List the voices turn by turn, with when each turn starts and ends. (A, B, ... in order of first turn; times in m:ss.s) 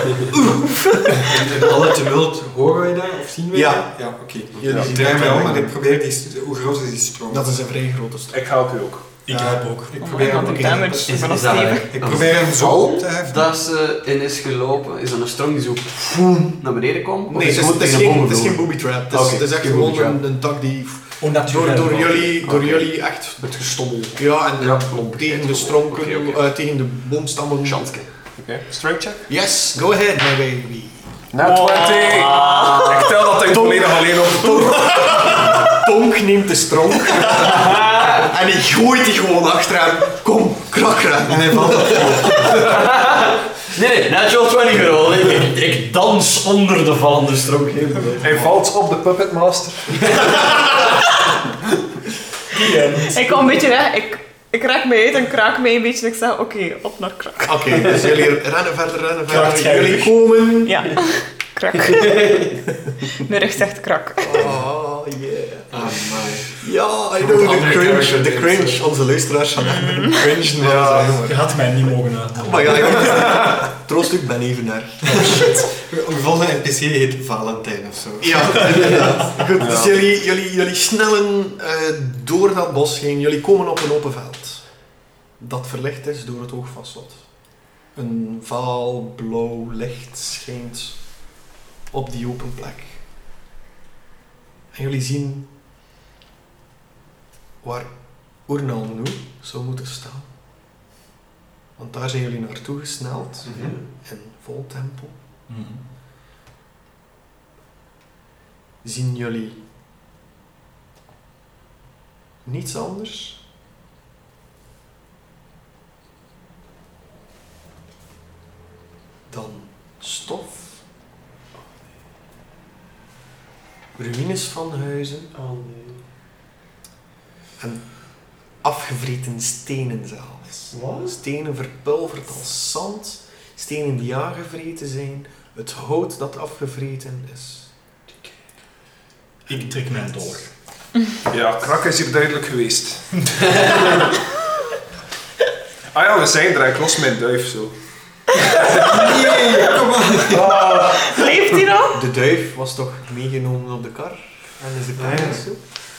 0:00.3-0:01.7 A
0:01.2-0:07.5 B
0:03.5-0:05.7 A
0:04.6-0:04.9 C
0:07.3-0:08.4 A
0:08.3-0:09.2 C
0:09.2-0:10.0 D
0:09.3-0:11.3 B
0:10.0-0:11.9 E
0:10.2-0:11.0 A
0:11.1-0:20.2 F
0:11.9-0:13.5 B
0:17.3-0:23.4 A
0:21.2-0:22.4 D
0:22.4-0:26.4 F
0:24.2-0:27.8 A
0:27.6-0:28.1 F
0:28.4-0:29.2 C
0:29.3-0:31.1 A
0:31.3-0:35.0 C
0:31.4-0:33.2 E
0:32.0-0:33.1 F
0:33.4-0:42.6 A
0:37.3-0:38.3 F
0:41.3-0:42.7 B
0:42.4-0:48.3 F
0:48.2-0:50.3 C
0:52.5-0:53.6 D
0:53.1-0:58.1 E
0:57.4-1:01.0 A
0:59.3-1:00.2 D
1:00.6-1:02.4 E
1:01.9-1:02.5 F
1:03.1-1:04.5 E
1:04.2-1:06.0 A
1:05.7-1:06.6 B
1:06.5-1:11.4 A
1:07.2-1:08.8 B
1:09.6-1:10.2 E
1:10.1-1:11.1 B
1:11.1-1:13.3 D
1:12.4-1:15.6 A
1:15.1-1:19.1 B
1:18.2-1:24.6 A
1:19.6-1:20.0 C
1:25.4-1:27.2 A
1:27.9-1:31.0 A
1:31.9-1:33.0 A
1:34.7-1:35.5 A
1:37.6-1:40.3 A
1:41.8-1:45.2 A
1:43.5-1:43.8 F
1:45.5-1:45.8 D
1:48.8-1:49.6 A
1:52.4-1:53.4 A
1:59.3-2:00.8 A
2:04.0-2:05.3 A
2:05.3-2:06.0 F
2:07.6-2:08.0 A
2:08.6-2:17.7 A
2:10.7-2:11.1 F
2:19.5-2:20.5 D
2:21.3-2:23.8 C
2:23.5-2:23.9 F
2:25.9-2:27.7 C
2:28.4-2:29.0 C
2:28.7-2:30.5 B
2:30.3-2:31.1 C
2:30.3-2:31.1 F
2:30.7-2:32.0 E
2:31.9-2:35.6 A
2:35.0-2:35.4 B